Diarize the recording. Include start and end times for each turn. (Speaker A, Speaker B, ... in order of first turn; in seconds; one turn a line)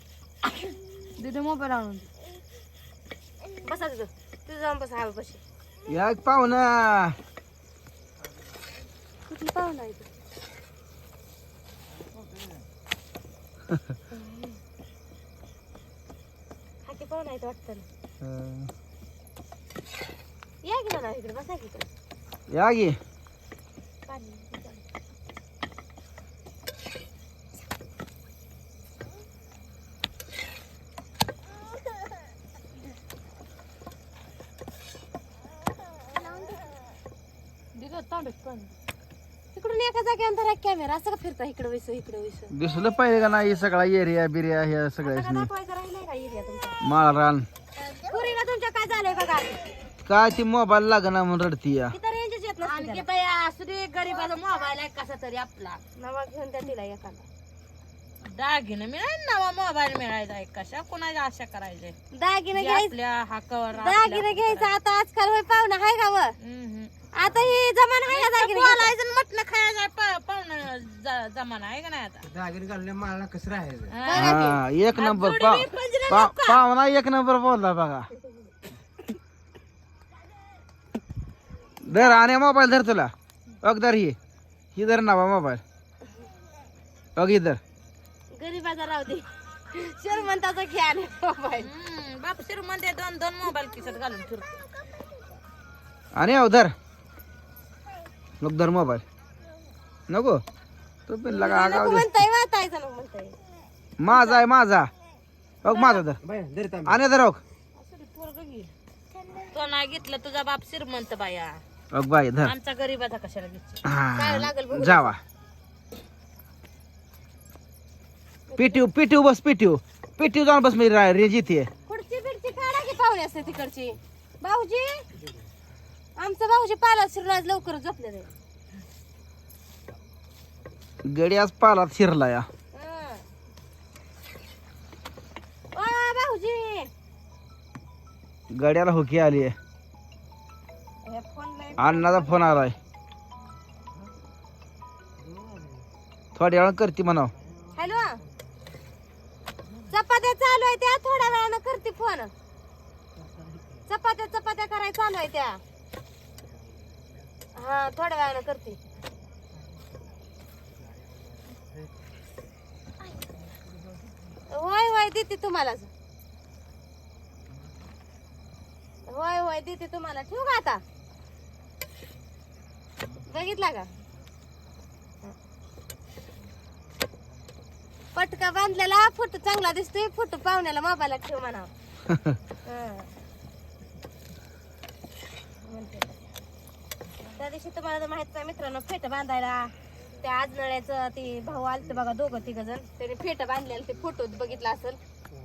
Speaker A: 0.5-2.1
Speaker B: 3.6-5.4
Speaker C: 5.9-7.2
Speaker B: 9.4-9.9
Speaker B: 14.2-14.6
Speaker B: 16.9-17.9
Speaker C: 18.2-18.7
Speaker B: 20.6-21.9
Speaker C: 22.5-23.0
Speaker B: 24.1-24.8
Speaker B: 36.1-36.7
Speaker A: 37.8-38.8
Speaker B: 39.5-42.5
Speaker C: 42.5-45.5
Speaker B: 45.0-46.8
Speaker C: 46.8-47.5
Speaker B: 47.8-49.7
Speaker C: 50.0-51.9
Speaker B: 51.9-53.0
Speaker A: 52.6-55.8
Speaker B: 56.0-57.2
Speaker A: 58.2-62.0
Speaker B: 62.1-62.9
Speaker A: 62.5-64.7
Speaker B: 63.7-66.4
Speaker A: 66.4-66.9
Speaker B: 67.1-68.9
Speaker A: 68.1-72.3
Speaker D: 72.3-73.9
Speaker A: 73.9-74.4
Speaker B: 74.0-74.6
Speaker C: 74.1-78.1
Speaker A: 75.0-76.6
Speaker C: 81.8-84.2
Speaker C: 84.8-85.6
Speaker C: 87.2-87.6
Speaker B: 88.3-91.7
Speaker A: 91.6-94.5
Speaker B: 94.8-95.1
Speaker C: 96.2-96.7
Speaker C: 98.4-99.0
Speaker C: 100.1-100.4
Speaker C: 101.1-102.1
Speaker B: 101.3-103.4
Speaker C: 104.0-104.9
Speaker B: 104.1-104.4
Speaker C: 105.6-106.2
Speaker B: 105.7-106.0
Speaker D: 106.2-106.9
Speaker C: 106.8-107.4
Speaker A: 107.8-108.7
Speaker A: 109.5-111.6
Speaker C: 111.9-112.5
Speaker A: 112.4-113.8
Speaker C: 113.8-115.2
Speaker B: 114.2-115.1
Speaker B: 118.5-118.8
Speaker C: 118.6-121.7
Speaker B: 121.9-125.0
Speaker B: 126.2-128.3
Speaker C: 131.0-132.5
Speaker B: 132.7-133.2
Speaker B: 135.7-136.9
Speaker C: 138.5-139.6
Speaker B: 141.1-142.6
Speaker C: 141.8-142.8
Speaker C: 146.3-147.3
Speaker B: 147.8-148.2
Speaker B: 149.9-152.3
Speaker B: 153.9-155.6
Speaker B: 157.5-158.8
Speaker B: 164.5-165.9
Speaker B: 169.1-170.8
Speaker B: 173.2-173.9
Speaker B: 178.2-181.7
Speaker B: 182.7-183.1
Speaker B: 185.6-186.2
Speaker B: 187.3-195.0